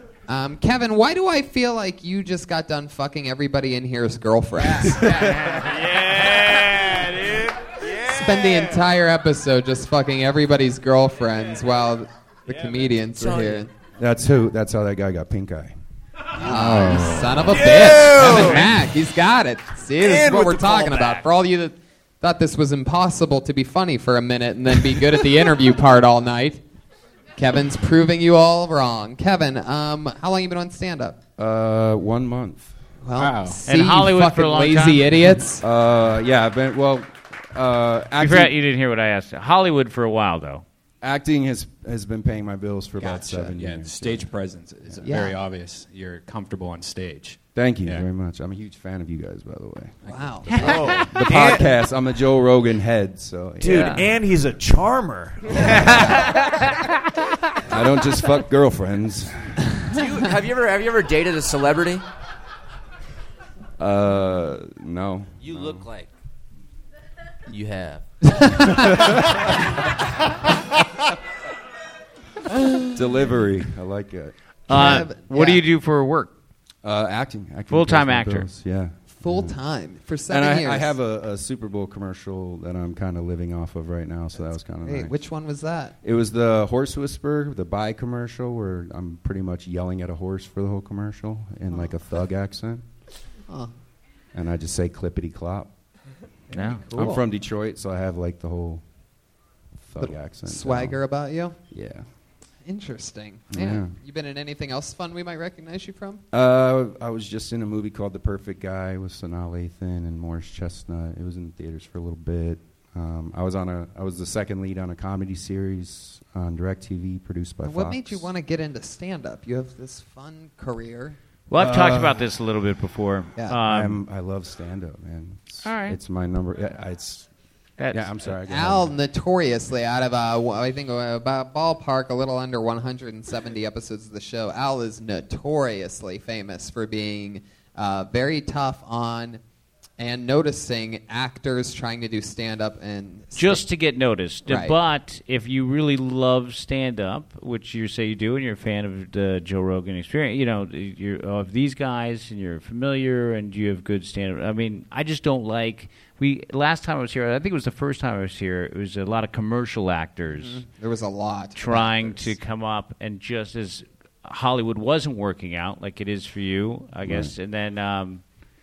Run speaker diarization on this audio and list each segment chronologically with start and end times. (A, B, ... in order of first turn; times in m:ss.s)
0:00.3-0:05.5 A
0:05.6-0:08.7 B
0:08.0-0:13.7 A
0:13.2-0:13.6 C
0:14.0-0:15.7 D
0:16.4-0:26.6 A
0:16.4-0:17.7 D
0:17.5-0:18.7 B
0:20.0-0:21.3 B
0:27.4-0:31.2 A
0:31.4-0:32.7 D
0:33.0-0:35.6 A
0:33.2-0:33.6 E
0:33.6-0:35.0 F
0:35.6-0:38.6 D
0:38.2-0:40.6 F
0:41.0-0:44.3 D
0:43.0-0:48.1 E
0:45.0-0:45.4 A
0:47.6-0:54.1 D
0:50.1-0:51.1 A
0:50.5-0:50.8 F
0:50.6-0:51.6 B
0:51.1-0:51.6 E
0:53.6-0:56.0 B
0:53.7-0:54.0 F
0:57.7-0:59.5 D
0:59.9-1:02.0 C
1:03.8-1:05.9 D
1:05.4-1:06.1 C
1:07.5-1:08.1 C
1:12.9-1:14.3 D
1:14.7-1:16.3 F
1:14.7-1:15.6 A
1:16.8-1:19.6 D
1:17.7-1:18.5 F
1:19.2-1:20.9 A
1:20.3-1:25.2 D
1:24.8-1:26.0 A
1:26.0-1:32.8 D
1:34.3-1:35.7 D
1:36.5-1:36.9 F
1:36.6-1:37.2 A
1:36.9-1:38.8 D
1:39.9-1:41.0 D
1:40.0-1:41.6 A
1:41.7-1:42.0 D
1:42.6-1:46.2 A
1:43.5-1:44.0 D
1:46.3-1:58.3 D
1:57.7-2:01.2 A
2:01.5-2:04.0 F
2:01.6-2:02.2 D
2:03.6-2:07.3 D
2:05.6-2:06.0 F
2:07.8-2:08.2 F
2:07.9-2:08.9 D
2:08.5-2:19.4 A
2:20.0-2:23.6 A
2:23.4-2:40.6 F
2:24.5-2:24.7 A
2:40.4-2:42.3 A
2:41.6-2:48.2 F
2:47.0-2:47.3 D